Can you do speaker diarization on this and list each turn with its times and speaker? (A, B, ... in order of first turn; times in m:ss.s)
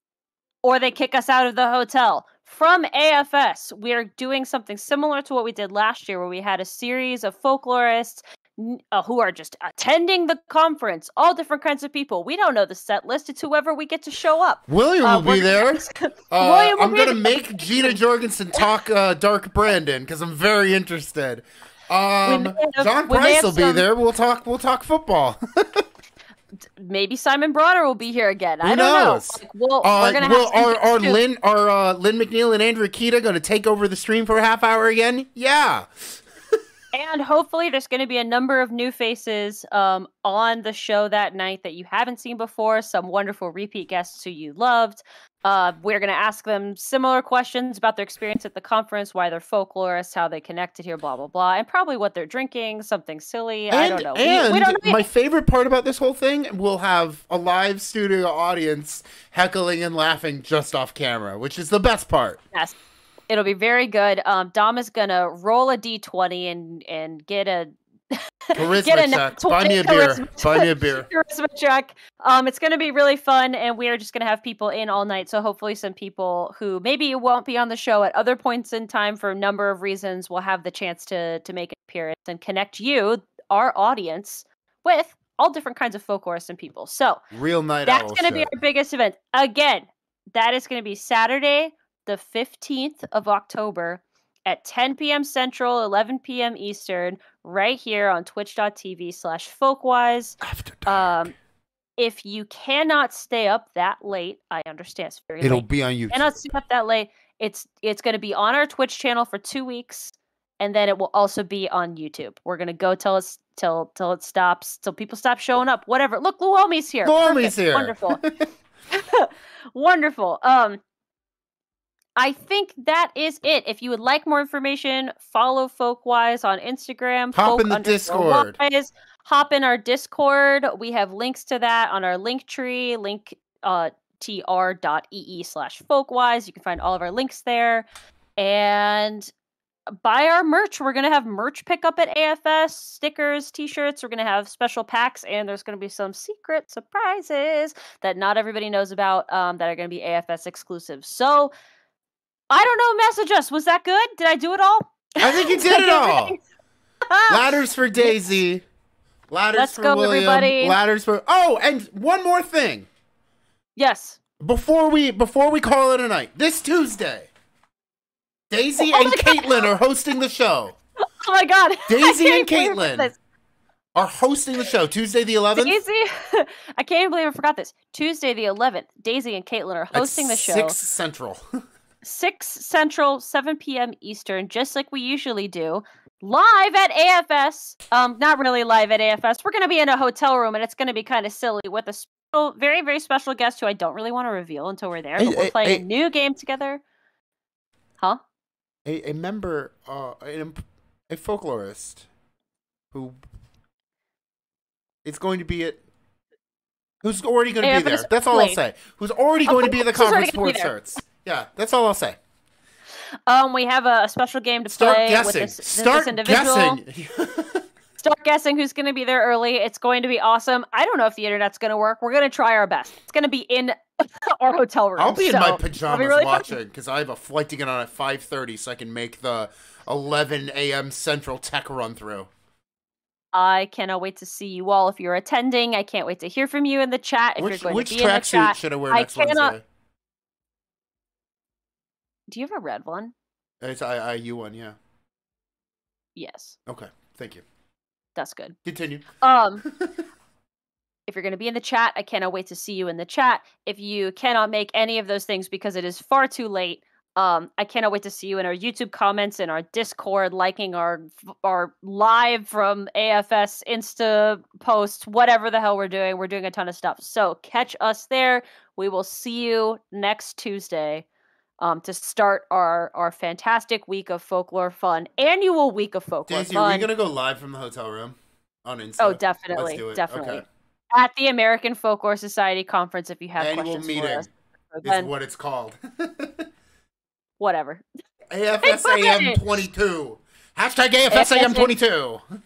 0:00.6-0:18.0 A
0:14.7-0:25.8 B
0:22.2-0:23.8 A
0:26.8-0:31.2 A
0:28.6-0:36.2 B
0:36.9-0:55.0 A
0:53.7-1:02.4 B
1:03.3-1:27.2 A
1:08.5-1:11.1 B
1:27.3-1:28.5 B
1:27.8-1:41.3 A
1:40.4-1:41.3 B
1:42.0-1:58.2 A
1:45.4-1:46.3 B
1:57.0-1:58.3 B
1:58.9-2:00.8 A
2:02.2-2:17.8 A
2:07.3-2:08.5 B
2:18.4-2:19.3 A
2:20.0-2:31.5 A
2:32.5-2:36.4 A
2:35.2-2:36.4 B
2:37.1-2:38.4 A
2:37.3-2:38.6 B
2:39.3-2:42.9 B
2:39.5-2:40.8 A
2:43.8-2:44.2 A
2:44.4-2:47.3 B
2:48.5-2:50.8 B
2:48.8-2:49.7 A
2:51.2-2:53.2 A
2:51.9-2:53.1 B
2:53.9-2:55.8 B
2:55.6-3:00.8 A
2:59.9-3:01.4 B
3:02.0-3:16.8 A
3:15.2-3:15.8 B
3:18.8-3:22.0 B
3:22.9-3:23.2 B
3:25.0-3:25.8 B
3:27.0-3:32.2 B
3:27.6-3:28.6 A
3:29.5-3:30.8 A
3:33.3-3:36.8 A
3:34.7-3:37.6 B
3:38.0-3:46.6 A
3:45.0-3:52.3 B
3:53.3-3:59.5 A
3:57.4-3:59.6 B
4:02.3-4:03.1 A
4:03.6-4:04.8 B
4:06.2-4:06.6 A
4:06.7-4:07.4 B
4:08.2-4:08.5 A
4:08.6-4:09.1 B
4:09.2-4:09.6 A
4:09.6-4:09.9 B
4:11.1-4:31.0 A
4:31.6-4:36.9 A
4:36.3-4:40.4 B
4:39.0-4:45.1 A
4:43.4-4:44.3 B
4:44.8-4:46.5 B
4:47.4-4:47.8 A
4:48.3-4:52.2 B
4:48.6-4:49.4 A
4:51.1-4:51.7 A